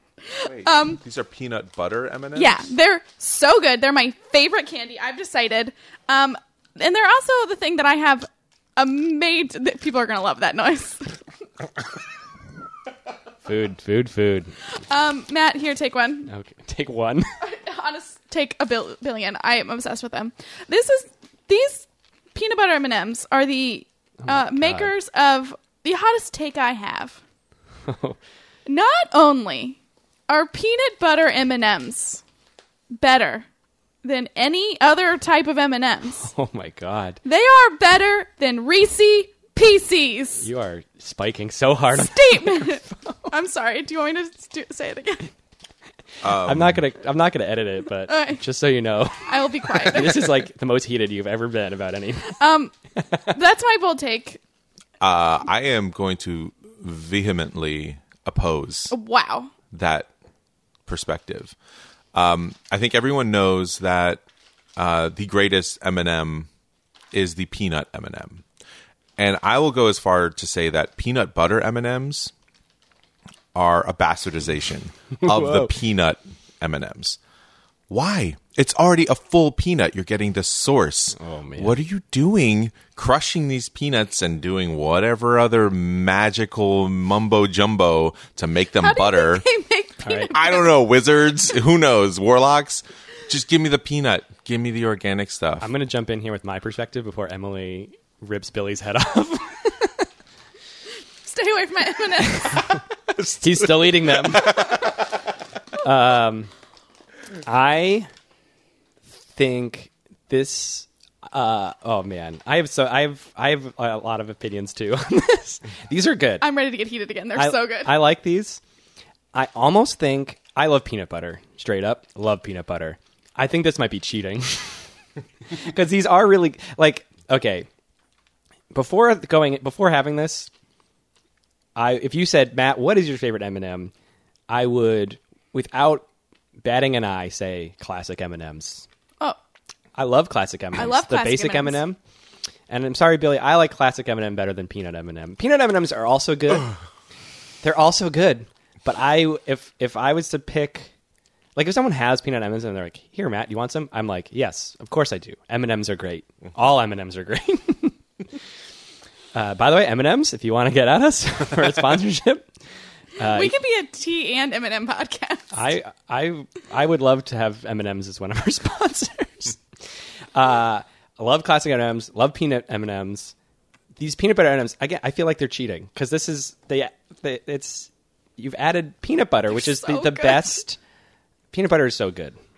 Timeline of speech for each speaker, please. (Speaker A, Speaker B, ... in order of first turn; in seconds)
Speaker A: 0.2-1.0, 2.3-11.2, 14.9-16.3, 17.4-27.2, 28.6-32.2, 33.0-33.5, 34.0-36.3, 37.2-40.5, 41.9-45.3, 48.1-48.4, 49.2-50.3, 52.4-52.7, 53.3-54.4, 58.9-59.5, 88.8-90.8, 101.2-102.8, 116.4-118.0, 140.8-141.8, 163.2-165.5, 179.5-180.6
Speaker B: 0.4-2.6, 46.2-46.8, 55.0-58.9, 59.7-60.1, 60.9-61.5, 62.1-64.2, 64.8-66.5, 67.1-68.4, 69.2-72.3, 73.5-77.2, 77.9-89.5, 90.3-95.7, 103.2-104.3
Speaker C: 13.4-14.5, 16.3-17.3, 24.2-24.9, 27.9-28.2, 36.2-37.2, 40.4-43.3, 46.3-52.4, 75.2-75.7, 81.2-81.7, 90.0-90.3, 95.6-100.0, 102.5-104.7, 105.8-106.5, 107.4-108.1, 109.2-116.5, 117.3-118.6, 119.3-124.9, 125.5-127.7, 128.7-130.5, 131.8-133.9, 134.5-136.1, 136.6-138.8, 139.9-142.0, 142.7-146.7, 147.6-150.9, 151.6-158.0, 159.3-162.5, 163.2-163.5, 165.5-169.6, 170.3-173.3, 173.9-180.8, 181.5-182.4